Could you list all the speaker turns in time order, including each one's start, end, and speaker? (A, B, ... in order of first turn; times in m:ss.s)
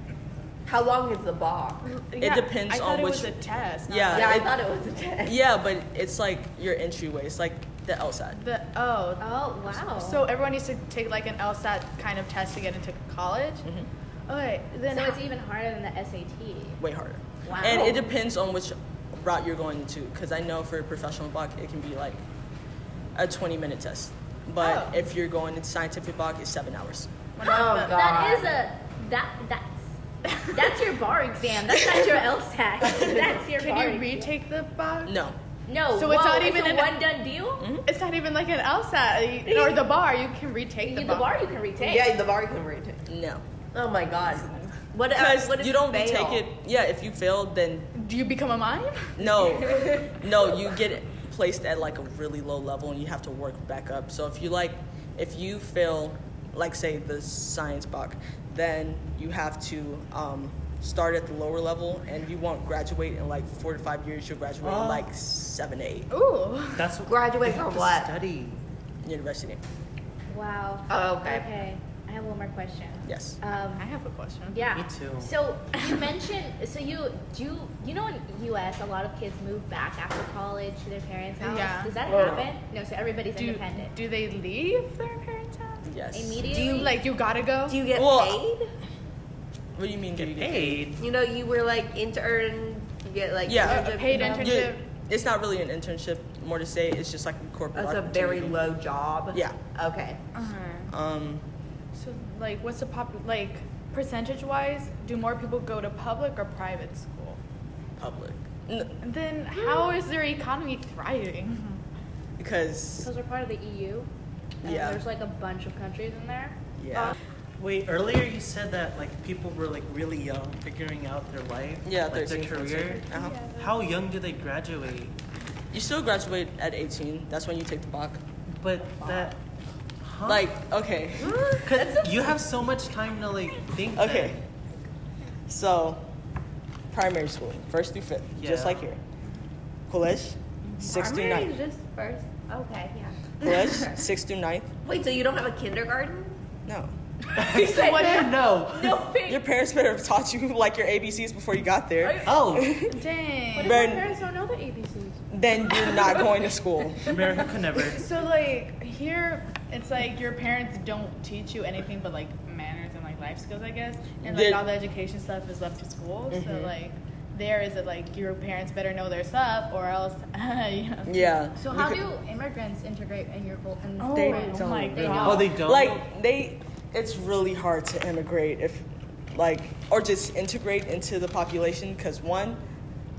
0:00.6-0:01.9 A
0:01.8-0:04.5 B
0:02.2-0:03.3 C
0:03.9-0:04.6 C
0:04.1-0:05.4 A
0:05.2-0:08.4 C
0:08.3-0:13.6 B
0:09.2-0:10.2 D
0:14.3-0:15.2 B
0:14.9-0:16.8 D
0:16.8-0:22.2 C
0:17.4-0:18.0 D
0:17.6-0:18.0 A
0:23.1-0:27.2 C
0:24.6-0:25.0 B
0:27.4-0:28.3 B
0:27.4-0:28.6 A
0:27.9-0:34.3 D
0:30.3-0:30.6 B
0:32.8-0:33.3 A
0:33.2-0:35.1 B
0:35.0-0:35.4 C
0:35.7-0:37.7 D
0:35.9-0:37.0 B
0:37.6-0:37.9 C
0:37.8-0:41.3 B
0:39.4-0:39.8 D
0:40.8-0:42.1 D
0:41.8-0:43.0 A
0:43.1-0:43.4 C
0:43.7-0:46.4 A
0:44.4-0:47.9 C
0:47.9-0:50.0 B
0:49.2-1:06.1 C
1:04.6-1:05.0 A
1:06.1-1:06.9 B
1:06.7-1:08.6 E
1:07.0-1:08.1 A
1:09.0-1:09.6 C
1:10.3-1:13.9 D
1:10.9-1:11.5 A
1:13.0-1:13.4 C
1:13.7-1:14.7 B
1:14.5-1:24.0 D
1:14.7-1:15.3 E
1:21.4-1:22.0 B
1:22.0-1:22.5 A
1:22.1-1:22.5 C
1:23.4-1:25.9 B
1:25.8-1:26.4 C
1:26.1-1:27.0 D
1:26.4-1:27.0 A
1:26.6-1:27.9 B
1:27.6-1:28.7 A
1:27.9-1:28.4 C
1:29.7-1:30.9 C
1:30.2-1:31.0 E
1:31.0-1:34.6 A
1:33.4-1:38.7 C
1:33.6-1:34.8 B
1:34.0-1:34.3 D
1:37.7-1:40.2 A
1:39.3-1:39.6 C
1:40.3-1:40.9 B
1:40.9-1:41.4 C
1:41.9-1:47.4 B
1:48.0-1:49.0 C
1:49.0-1:51.8 B
1:52.4-1:53.1 C
1:53.0-1:54.1 D
1:54.6-1:55.0 C
1:54.6-1:57.0 D
1:56.8-1:57.2 C
1:57.6-2:05.2 E
2:01.8-2:03.4 C
2:03.1-2:03.6 B
2:05.7-2:08.2 C
2:08.6-2:09.4 E
2:10.0-2:10.5 E
2:10.2-2:11.5 C
2:11.2-2:11.9 A
2:11.6-2:14.4 E
2:13.9-2:14.4 C
2:15.5-2:16.1 C
2:16.9-2:19.0 C
2:18.4-2:18.9 E
2:19.9-2:21.5 C
2:20.8-2:24.0 A
2:23.4-2:24.7 C
2:24.8-2:26.4 A
2:26.7-2:26.9 C
2:27.3-2:29.1 E
2:27.3-2:29.4 D
2:27.6-2:28.4 B
2:29.2-2:33.0 C
2:32.0-2:32.3 D
2:32.2-2:32.8 E
2:32.9-2:33.8 B
2:33.5-2:36.3 D
2:33.6-2:34.1 C
2:35.3-2:37.2 C
2:37.0-2:38.1 E
2:37.9-2:51.3 B
2:44.2-2:44.6 C
2:46.3-2:46.7 C
2:51.0-2:52.0 C
2:51.6-2:55.5 D
2:54.0-2:55.5 B
2:54.1-3:02.6 C
2:55.2-2:56.0 E